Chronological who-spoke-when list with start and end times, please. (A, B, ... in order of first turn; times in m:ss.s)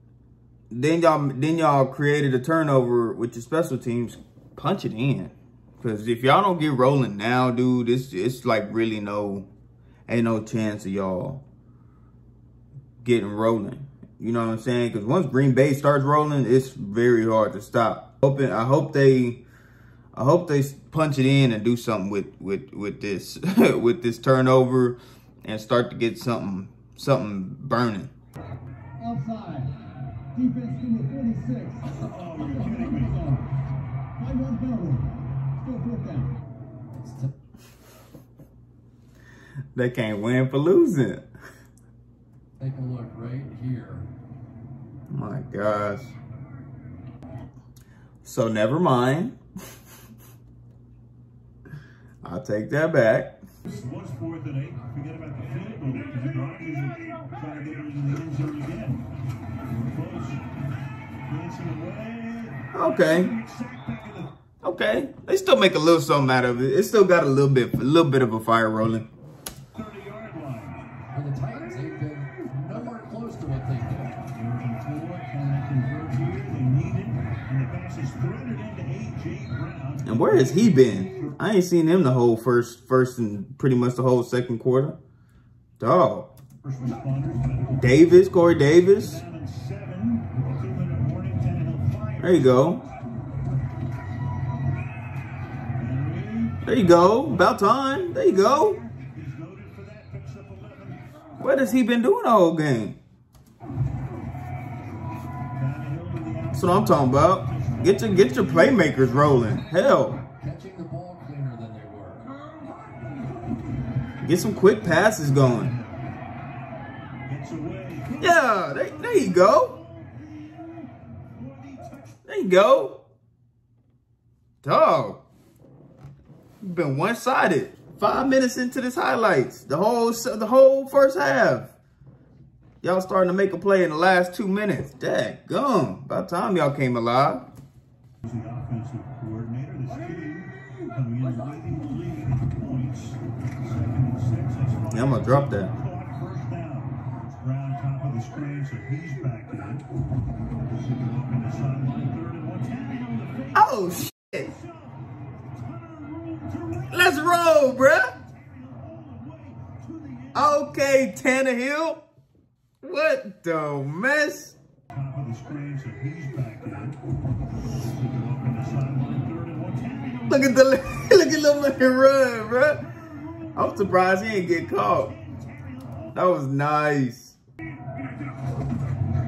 0:00.7-0:09.5 A
0:10.1-0:11.4 A
0:13.0-0:19.4 A
0:20.1-0:28.1 A
0:29.0-0:29.7 B
0:30.3-0:31.8 B
0:31.8-0:33.5 C
0:34.2-0:35.1 B
0:35.6-0:36.3 B
0:37.0-0:37.3 D
0:39.7-0:41.3 A
0:42.6-0:44.1 D
0:45.1-0:46.1 A
0:48.2-0:49.4 A
0:52.2-0:53.4 A
0:53.7-0:59.0 C
0:59.7-1:00.5 C
1:01.3-1:04.3 C
1:02.7-1:03.3 A
1:04.6-1:09.1 A
1:09.7-1:10.8 C
1:11.1-1:14.2 D
1:14.3-1:21.4 C
1:20.0-1:25.0 A
1:25.8-1:26.3 A
1:26.6-1:32.8 C
1:27.8-1:29.2 A
1:32.2-1:32.8 A
1:35.8-1:41.4 C
1:36.6-1:38.8 A
1:41.4-1:43.0 A
1:45.5-1:50.1 C
1:46.5-1:50.2 A
1:50.4-1:52.4 D
1:54.2-1:55.7 A
1:55.5-1:56.0 C
1:57.3-2:02.2 C
1:58.2-1:59.8 A
2:02.2-2:03.0 A
2:04.6-2:05.2 A
2:06.6-2:11.7 A
2:12.8-2:17.5 A
2:18.2-2:29.9 C
2:24.9-2:25.7 A
2:30.7-2:41.0 C
2:33.5-2:34.5 A
2:36.9-2:38.1 A
2:40.3-2:42.0 A
2:42.8-2:44.6 A
2:44.9-2:47.0 C
2:47.6-2:50.6 C
2:50.3-2:52.8 A
2:52.8-2:56.2 C
2:53.6-2:55.1 A
2:56.1-2:57.4 A